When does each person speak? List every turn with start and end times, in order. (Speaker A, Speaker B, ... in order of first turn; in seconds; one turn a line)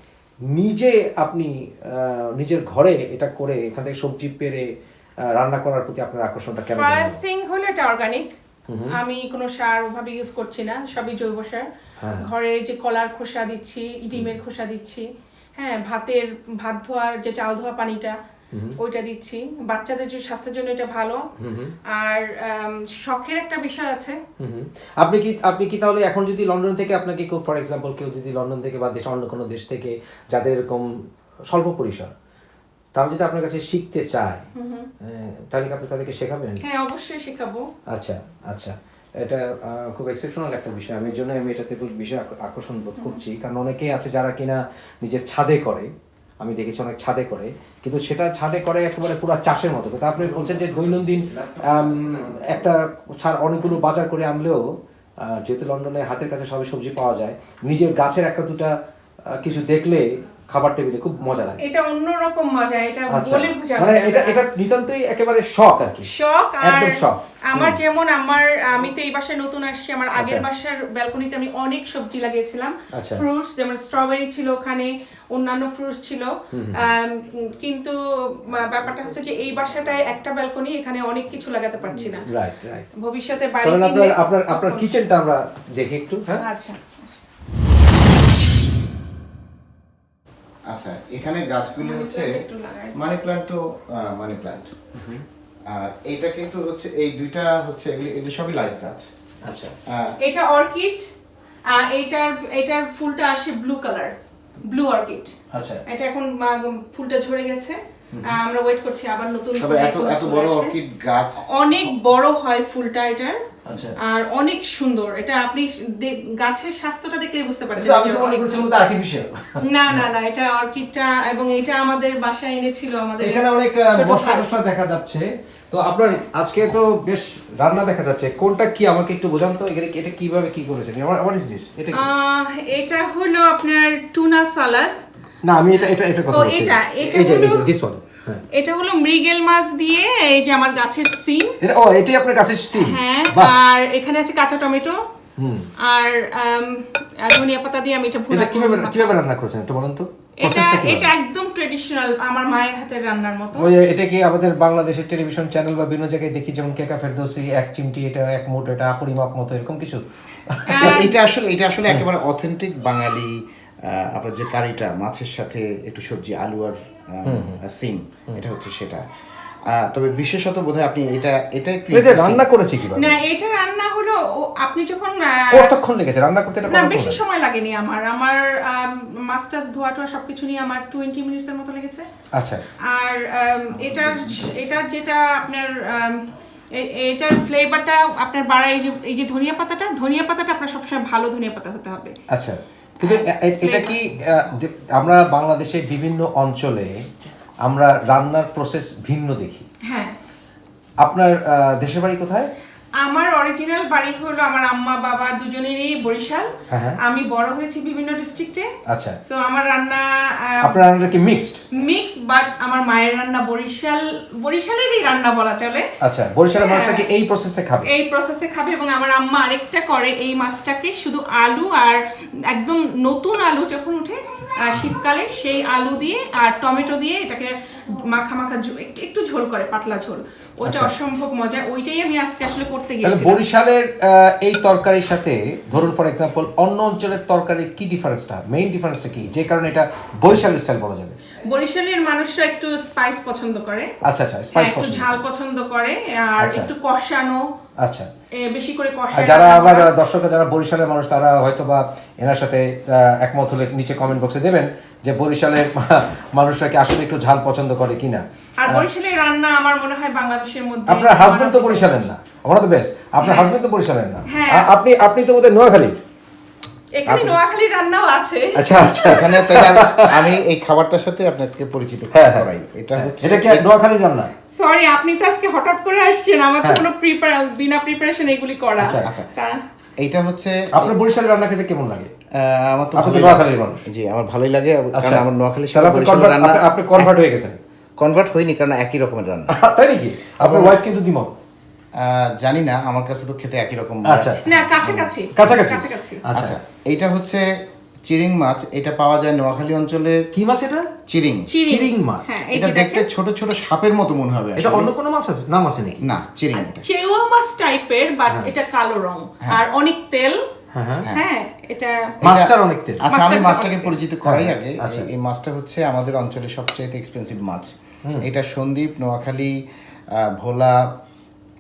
Speaker A: 0.5-4.7
Speaker A: 5.2-7.2
Speaker B: 6.7-8.3
Speaker A: 8.7-8.9
Speaker B: 8.9-11.7
Speaker A: 12.0-12.3
Speaker B: 12.2-18.2
Speaker A: 18.5-18.8
Speaker B: 18.8-21.2
Speaker A: 21.4-21.7
Speaker B: 21.9-24.2
Speaker A: 24.4-32.1
Speaker A: 32.9-34.4
Speaker B: 34.5-34.9
Speaker A: 35.0-36.6
Speaker B: 36.6-37.7
Speaker A: 37.9-54.6
Speaker C: 50.2-52.7
Speaker A: 55.2-58.8
Speaker A: 59.3-61.6
Speaker B: 61.6-64.4
Speaker A: 63.1-67.8
Speaker B: 66.0-82.3
Speaker A: 70.2-70.4
Speaker A: 72.9-73.2
Speaker A: 76.5-76.8
Speaker A: 82.2-82.9
Speaker B: 83.0-84.9
Speaker A: 83.6-86.4
Speaker B: 86.3-87.2
Speaker C: 90.7-92.4
Speaker B: 91.8-93.0
Speaker C: 92.9-94.7
Speaker A: 94.9-95.2
Speaker C: 95.7-99.1
Speaker A: 99.4-99.7
Speaker C: 99.9-100.2
Speaker B: 100.2-101.1
Speaker B: 101.7-104.1
Speaker B: 104.6-110.7
Speaker A: 105.5-105.8
Speaker A: 108.1-108.4
Speaker C: 109.6-111.9
Speaker B: 111.4-113.4
Speaker A: 113.7-114.0
Speaker B: 114.0-118.6
Speaker A: 117.8-120.1
Speaker B: 119.6-124.5
Speaker A: 123.2-132.1
Speaker B: 131.9-135.0
Speaker A: 135.4-138.4
Speaker B: 135.8-137.7
Speaker B: 138.5-141.6
Speaker A: 141.6-143.5
Speaker B: 142.8-145.0
Speaker A: 145.4-145.7
Speaker B: 145.8-149.2
Speaker A: 148.3-151.1
Speaker B: 150.4-153.7
Speaker A: 153.6-160.9
Speaker B: 160.7-161.1
Speaker C: 160.8-169.1
Speaker A: 167.2-167.6
Speaker C: 169.6-172.5
Speaker A: 171.9-173.2
Speaker B: 172.9-175.7
Speaker A: 175.5-177.2
Speaker B: 176.7-182.1
Speaker A: 182.3-182.6
Speaker B: 182.9-192.1
Speaker A: 183.8-184.5
Speaker A: 192.3-197.1
Speaker B: 193.0-194.0
Speaker A: 197.6-199.7
Speaker B: 199.8-200.2
Speaker A: 201.0-202.5
Speaker B: 203.0-208.7
Speaker A: 206.7-207.0
Speaker A: 208.9-209.2
Speaker B: 209.2-210.8
Speaker A: 210.6-211.6
Speaker B: 211.7-215.9
Speaker A: 216.0-217.9
Speaker B: 216.6-217.0
Speaker B: 217.8-233.4
Speaker A: 230.6-230.9
Speaker A: 233.0-241.2
Speaker B: 241.4-244.0
Speaker A: 244.0-245.1
Speaker B: 244.5-247.4
Speaker A: 246.4-246.7
Speaker A: 247.8-248.1
Speaker B: 248.4-249.9
Speaker A: 249.1-258.9
Speaker B: 258.6-262.0
Speaker A: 260.9-266.0
Speaker B: 263.2-263.5
Speaker B: 264.3-264.7
Speaker B: 266.9-269.4
Speaker C: 267.1-267.5
Speaker A: 268.6-270.2
Speaker C: 269.0-273.7
Speaker A: 272.1-274.3
Speaker B: 274.5-279.6
Speaker A: 278.8-279.1
Speaker C: 278.9-279.3
Speaker C: 280.0-281.0
Speaker A: 280.7-282.1
Speaker C: 282.3-287.1
Speaker A: 282.9-283.9
Speaker A: 284.9-287.6
Speaker C: 288.0-289.5
Speaker A: 289.5-291.3
Speaker C: 290.4-290.8
Speaker C: 291.9-294.7
Speaker A: 294.1-296.6
Speaker B: 294.4-296.2
Speaker C: 296.3-300.3
Speaker A: 300.3-300.9
Speaker C: 301.1-301.5
Speaker B: 301.5-303.1
Speaker A: 301.6-302.3
Speaker C: 302.5-304.9
Speaker A: 304.6-306.1
Speaker C: 306.0-306.9
Speaker B: 306.7-310.4
Speaker A: 310.7-311.1
Speaker B: 311.1-312.1
Speaker C: 312.2-321.0
Speaker A: 312.2-313.0
Speaker B: 313.1-313.9
Speaker A: 314.2-315.1